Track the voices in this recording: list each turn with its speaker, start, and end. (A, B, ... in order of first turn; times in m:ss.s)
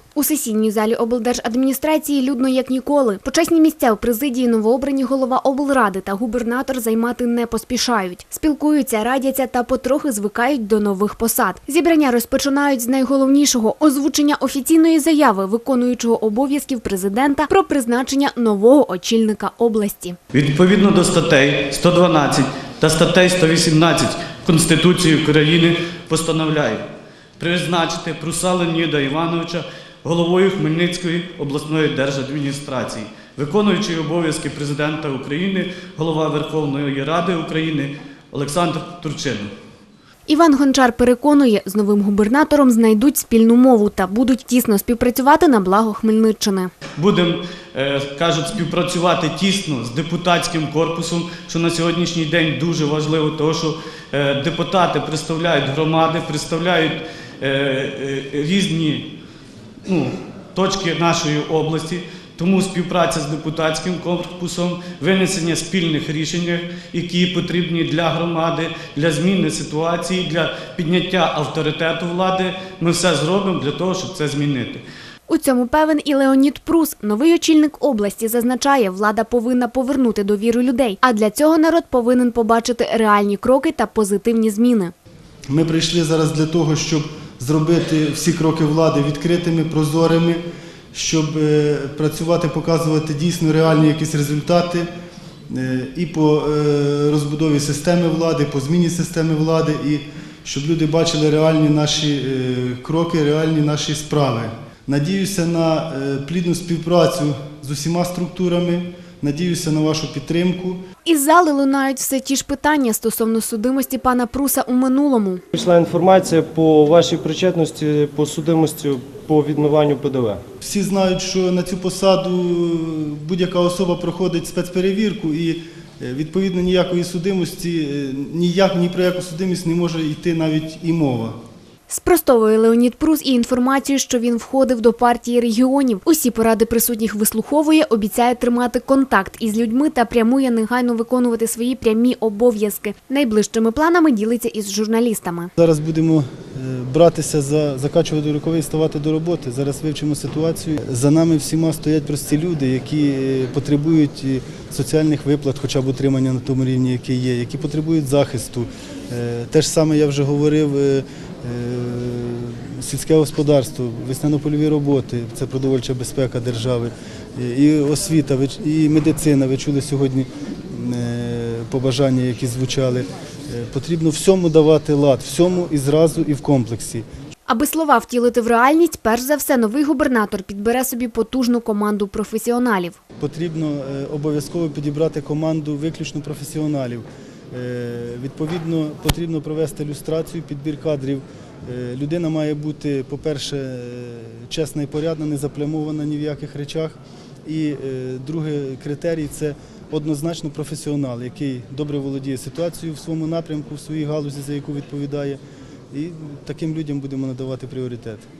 0:00.1-0:20.2 A
0:20.3-0:26.8 B
0:27.4-0:39.5 B
0:40.3-0:46.7 A
0:47.0-0:59.1 B
0:59.8-1:14.8 B
1:15.3-1:24.9 A
1:25.5-1:30.4 C
1:30.9-1:34.9 C
1:35.5-1:50.8 C
1:51.0-1:55.4 A
1:55.5-2:00.4 D
2:00.6-2:11.4 C
2:11.9-2:25.5 A
2:25.6-2:57.0 C
2:57.5-3:03.0 A
3:03.2-3:25.4 C
3:25.9-3:28.2 C